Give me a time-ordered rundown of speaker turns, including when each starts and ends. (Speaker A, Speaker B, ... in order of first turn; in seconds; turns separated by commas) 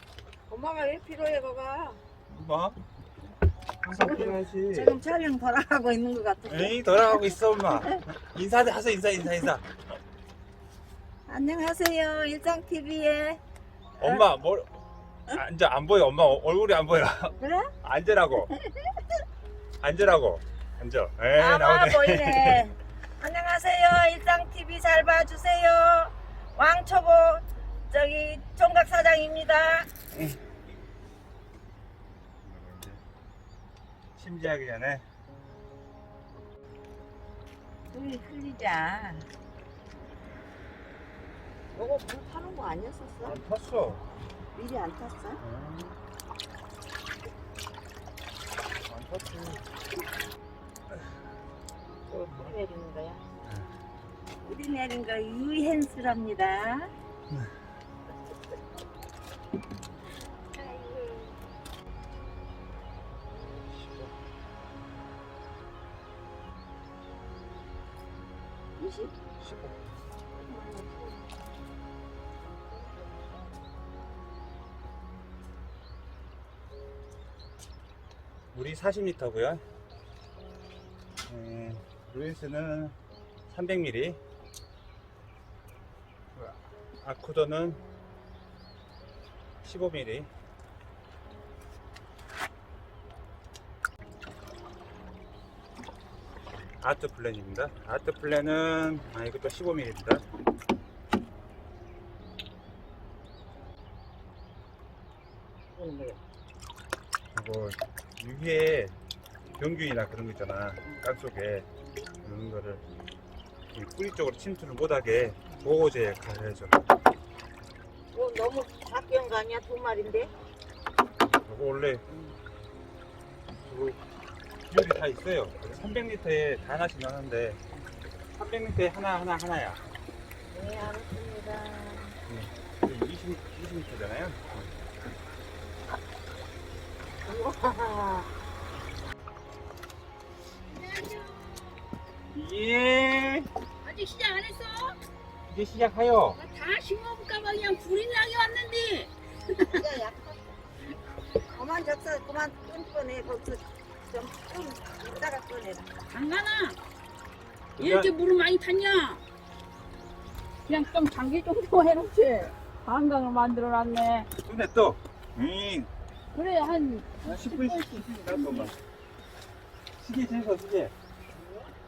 Speaker A: 0.5-2.0, Speaker B: 2.3-2.8, Speaker B: 3.8-5.0, Speaker A: 3.9-8.0, Speaker B: 6.5-9.6, Speaker A: 11.3-13.4, Speaker B: 14.0-14.7, Speaker A: 14.0-14.2, Speaker B: 15.3-18.5, Speaker A: 17.4-17.7, Speaker A: 18.7-19.0, Speaker B: 19.8-22.7, Speaker A: 21.4-29.9, Speaker B: 32.4-33.0, Speaker B: 34.2-35.0, Speaker A: 37.9-39.3, Speaker A: 41.7-43.4, Speaker B: 43.2-44.0, Speaker A: 44.5-45.4, Speaker B: 45.4-46.0, Speaker B: 48.9-49.6, Speaker A: 52.1-53.2, Speaker A: 54.4-56.9, Speaker A: 60.5-61.4, Speaker B: 63.4-64.1, Speaker A: 68.8-69.2, Speaker B: 69.4-69.8, Speaker A: 70.3-71.4, Speaker B: 78.5-79.6, Speaker B: 81.3-83.0, Speaker B: 83.5-84.2, Speaker B: 86.4-87.8, Speaker B: 89.6-90.3, Speaker B: 96.8-100.2, Speaker A: 105.7-106.2, Speaker B: 107.3-109.0, Speaker B: 109.6-111.7, Speaker B: 112.2-112.8, Speaker B: 113.7-116.8, Speaker A: 118.1-120.3, Speaker B: 121.4-122.0, Speaker B: 123.7-124.0, Speaker B: 124.7-127.6, Speaker B: 128.4-129.8, Speaker A: 130.5-132.2, Speaker B: 132.3-134.7, Speaker A: 137.2-138.3, Speaker C: 140.7-141.8, Speaker B: 142.3-143.5, Speaker C: 143.8-145.0, Speaker B: 145.5-146.4, Speaker C: 146.3-149.8, Speaker A: 149.7-150.6, Speaker A: 151.3-155.9, Speaker C: 156.1-156.8, Speaker B: 157.8-158.1, Speaker C: 157.8-159.2, Speaker C: 160.7-164.3, Speaker B: 164.4-165.9, Speaker C: 166.3-168.7, Speaker B: 167.2-168.8, Speaker B: 170.0-170.9